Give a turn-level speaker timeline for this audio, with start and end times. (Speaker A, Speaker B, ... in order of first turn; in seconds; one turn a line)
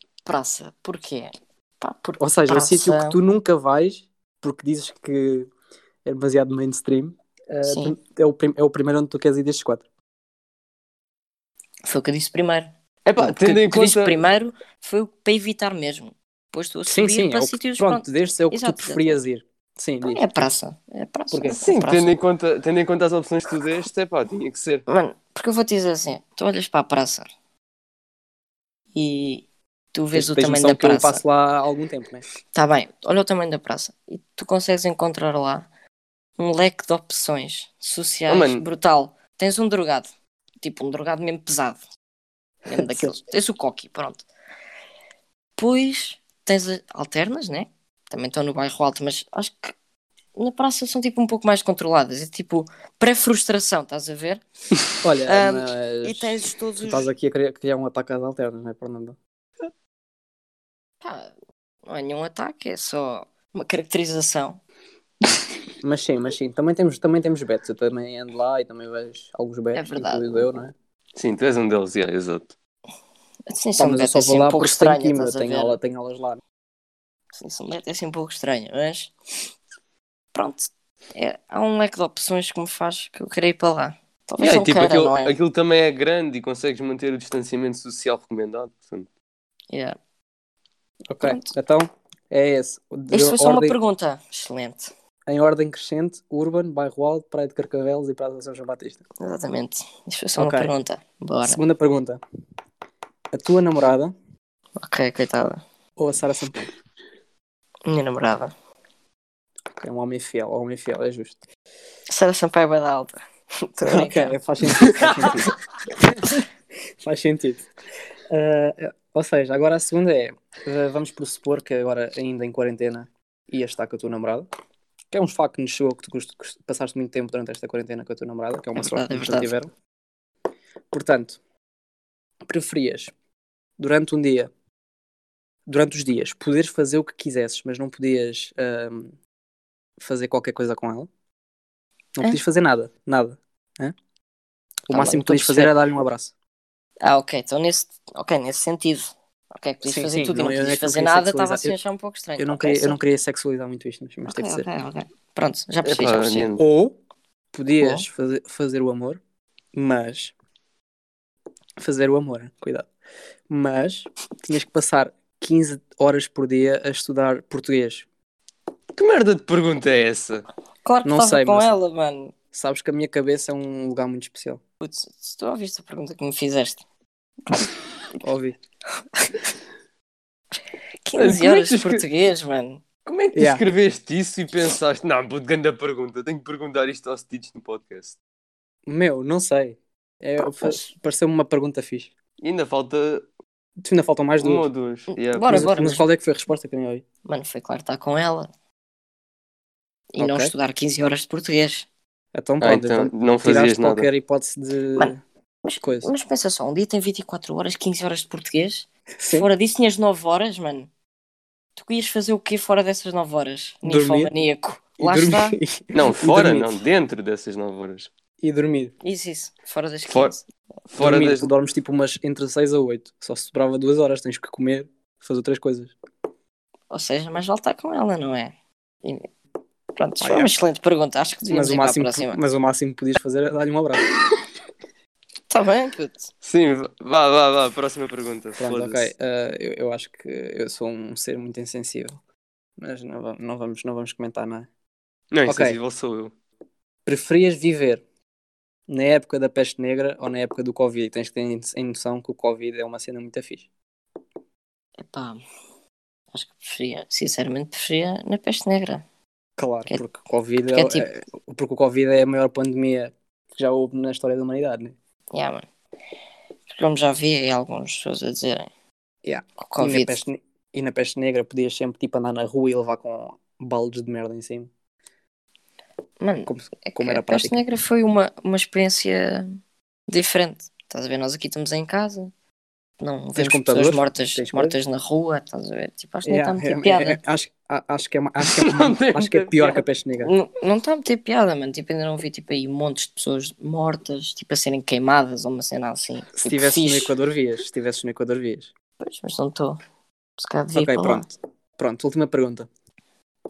Speaker A: 0.3-3.2
Speaker B: 2.2-5.5
Speaker B: 6.0-9.8
Speaker A: 7.7-8.0
Speaker A: 11.8-19.2
Speaker C: 13.1-14.2
Speaker B: 16.9-20.2
Speaker A: 20.0-22.1
Speaker B: 21.3-21.6
Speaker C: 21.6-24.9
Speaker A: 24.9-27.3
Speaker A: 28.9-31.2
Speaker B: 30.1-32.3
Speaker A: 32.5-35.7
Speaker A: 36.4-40.1
Speaker C: 38.3-38.6
Speaker A: 40.6-41.8
Speaker A: 42.7-44.3
Speaker B: 42.8-43.1
Speaker A: 45.6-49.7
Speaker A: 50.4-54.4
Speaker B: 55.0-59.2
Speaker A: 55.3-57.1
Speaker A: 61.0-61.3
Speaker A: 61.9-64.6
Speaker B: 65.8-70.7
Speaker A: 69.7-70.6
Speaker C: 71.2-72.5
Speaker A: 73.5-75.8
Speaker B: 73.8-76.4
Speaker A: 77.3-79.1
Speaker A: 80.3-85.3
Speaker C: 84.4-89.1
Speaker A: 89.7-90.0
Speaker B: 91.1-93.8
Speaker A: 91.2-91.5
Speaker A: 93.1-94.9
Speaker B: 95.3-99.0
Speaker A: 99.2-101.6
Speaker B: 100.4-100.7
Speaker B: 101.5-102.2
Speaker B: 103.3-104.1
Speaker A: 104.8-105.6
Speaker B: 106.0-106.7
Speaker A: 107.9-108.5
Speaker B: 109.8-111.4
Speaker A: 112.1-113.2
Speaker A: 113.7-115.4
Speaker B: 113.8-115.5
Speaker B: 116.0-116.4
Speaker B: 117.0-117.7
Speaker B: 118.3-124.5
Speaker B: 125.1-129.7
Speaker A: 128.8-129.5
Speaker B: 130.9-131.4
Speaker B: 132.5-133.1
Speaker B: 133.8-134.5
Speaker B: 135.7-139.2
Speaker B: 140.0-141.1
Speaker B: 142.2-143.9
Speaker B: 144.9-146.3
Speaker A: 144.9-145.7
Speaker A: 147.0-153.0
Speaker B: 149.8-151.8
Speaker B: 152.4-154.7
Speaker A: 154.3-156.5
Speaker C: 155.8-156.6
Speaker B: 156.6-156.9
Speaker B: 157.5-159.2
Speaker A: 157.8-158.1
Speaker B: 159.7-160.3
Speaker B: 161.8-162.9
Speaker B: 163.5-168.1
Speaker C: 168.9-170.5
Speaker A: 170.8-172.3
Speaker B: 171.1-171.7
Speaker B: 172.5-174.6
Speaker A: 174.8-176.8
Speaker B: 178.2-178.6
Speaker A: 181.1-182.8
Speaker C: 181.2-182.0
Speaker C: 183.1-188.2
Speaker B: 183.3-183.6
Speaker B: 188.9-192.1
Speaker A: 190.6-190.9
Speaker C: 192.4-193.3
Speaker B: 193.8-194.7
Speaker C: 194.4-195.7
Speaker A: 195.1-196.1
Speaker B: 195.5-197.1
Speaker A: 197.2-198.5
Speaker A: 200.1-201.9
Speaker B: 200.2-200.5
Speaker B: 202.3-205.2
Speaker C: 202.6-204.1
Speaker A: 205.7-210.9
Speaker B: 205.8-206.1
Speaker B: 209.2-209.5
Speaker A: 211.8-215.6
Speaker B: 213.8-214.3
Speaker B: 215.0-216.8
Speaker C: 215.9-218.1
Speaker B: 218.4-218.9
Speaker A: 219.0-220.4
Speaker C: 220.1-220.3
Speaker C: 220.9-221.5
Speaker B: 221.0-225.9
Speaker A: 226.9-228.5
Speaker A: 229.0-229.3
Speaker A: 230.0-232.4
Speaker B: 230.2-230.5
Speaker B: 231.5-234.1
Speaker A: 235.5-236.3
Speaker C: 236.4-239.1
Speaker B: 238.6-242.2
Speaker B: 242.8-244.7
Speaker C: 245.3-246.3
Speaker B: 245.5-245.8
Speaker B: 247.1-248.0
Speaker B: 248.9-253.7
Speaker A: 255.0-255.4
Speaker A: 256.3-259.0
Speaker B: 259.6-264.9
Speaker A: 260.7-261.1
Speaker A: 265.3-265.6
Speaker A: 266.7-268.7
Speaker B: 269.2-274.7
Speaker A: 269.7-270.2
Speaker A: 276.2-279.6
Speaker B: 276.5-277.6
Speaker A: 280.1-282.3
Speaker A: 283.0-287.2
Speaker B: 283.4-284.8
Speaker B: 286.2-290.3
Speaker C: 288.5-289.8
Speaker A: 290.2-297.1
Speaker B: 296.4-298.7
Speaker A: 299.0-299.8
Speaker A: 300.4-301.3
Speaker B: 300.7-302.7